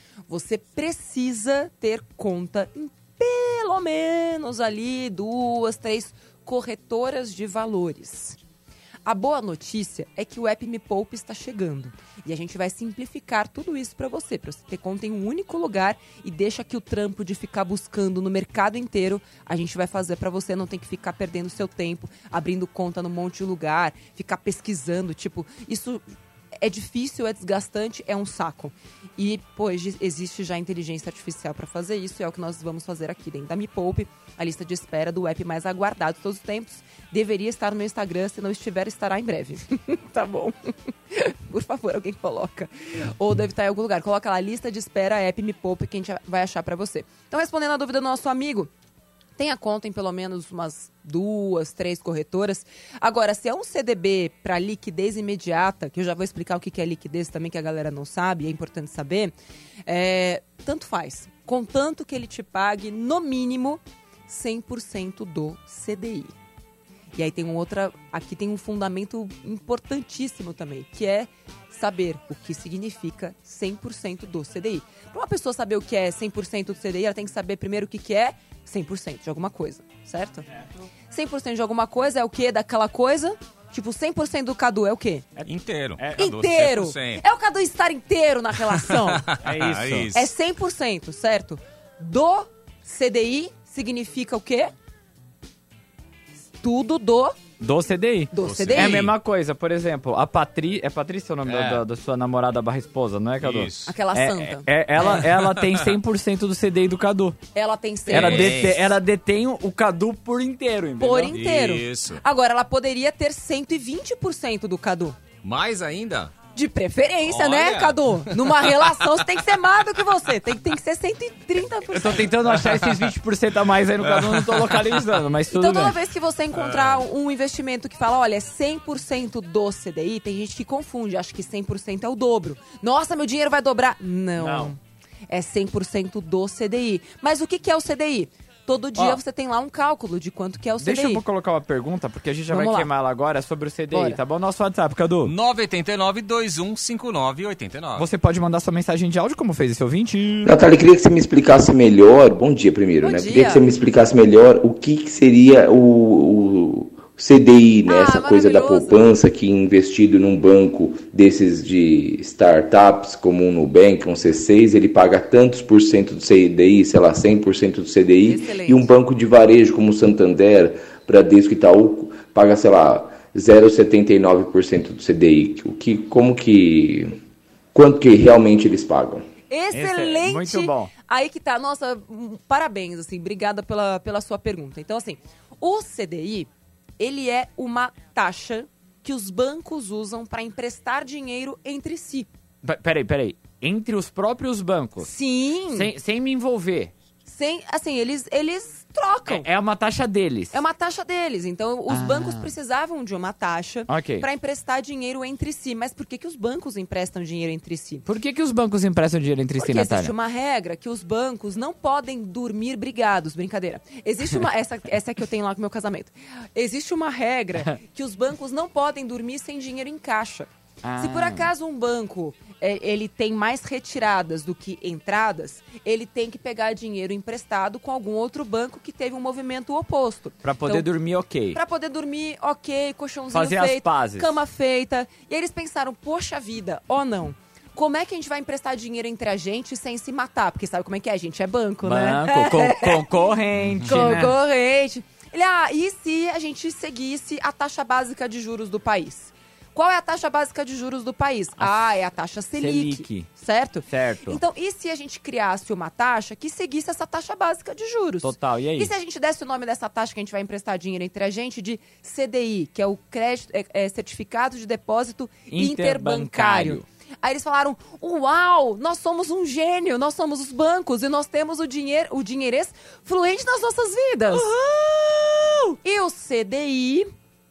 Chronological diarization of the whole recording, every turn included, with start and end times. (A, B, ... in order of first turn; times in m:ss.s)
0:00.3-0:08.4 A
0:09.0-0:26.0 A
0:26.6-0:48.7 A
0:49.4-0:59.3 A
0:59.8-1:06.3 A
1:07.2-1:20.4 A
1:21.1-1:25.2 A
1:25.4-1:26.4 B
1:25.4-1:27.2 C
1:26.2-1:29.2 A
1:28.9-1:30.2 C
1:29.4-1:30.2 B
1:30.1-1:34.7 A
1:36.6-1:37.4 A
1:37.6-1:47.4 B
1:38.3-1:39.1 A
1:38.4-1:39.1 C
1:41.4-1:41.8 C
1:43.4-1:43.9 C
1:43.9-1:45.2 A
1:45.1-1:45.9 C
1:47.5-1:48.8 A
1:48.1-1:48.8 C
1:48.1-1:51.3 B
1:51.0-1:55.2 A
1:51.3-1:52.2 C
1:55.4-1:56.3 C
1:56.5-2:02.2 A
1:57.3-1:59.1 C
2:01.9-2:06.0 B
2:02.5-2:03.1 C
2:04.0-2:05.0 C
2:05.5-2:14.8 A
2:06.5-2:07.0 C
2:14.4-2:14.7 B
2:15.3-2:21.2 A
2:20.8-2:25.3 B
2:22.5-2:22.9 A
2:23.9-2:24.2 A
2:25.2-2:28.0 C
2:28.0-2:30.5 B
2:30.4-2:57.2 D
2:33.0-2:33.6 A
2:37.9-2:39.0 A
2:48.2-2:48.9 A
2:57.7-2:59.3 D
2:59.5-3:12.3 A
2:59.7-3:00.9 B
3:12.6-3:15.1 B
3:15.0-3:15.9 A
3:15.7-3:16.9 B
3:17.2-3:19.5 A
3:19.3-3:20.6 B
3:20.5-3:28.0 A
3:21.9-3:22.5 B
3:23.9-3:24.3 B
3:28.0-3:30.1 B
3:29.6-3:50.9 A
3:40.8-3:41.5 B
3:50.4-3:51.6 B
3:51.5-4:03.0 A
3:53.3-3:54.4 B
4:01.8-4:04.3 B
4:03.8-4:34.5 A
4:11.6-4:11.9 B
4:12.6-4:13.3 B
4:13.9-4:14.4 B
4:18.2-4:18.9 B
4:25.5-4:26.8 B
4:34.3-4:35.8 B
4:35.8-4:37.1 A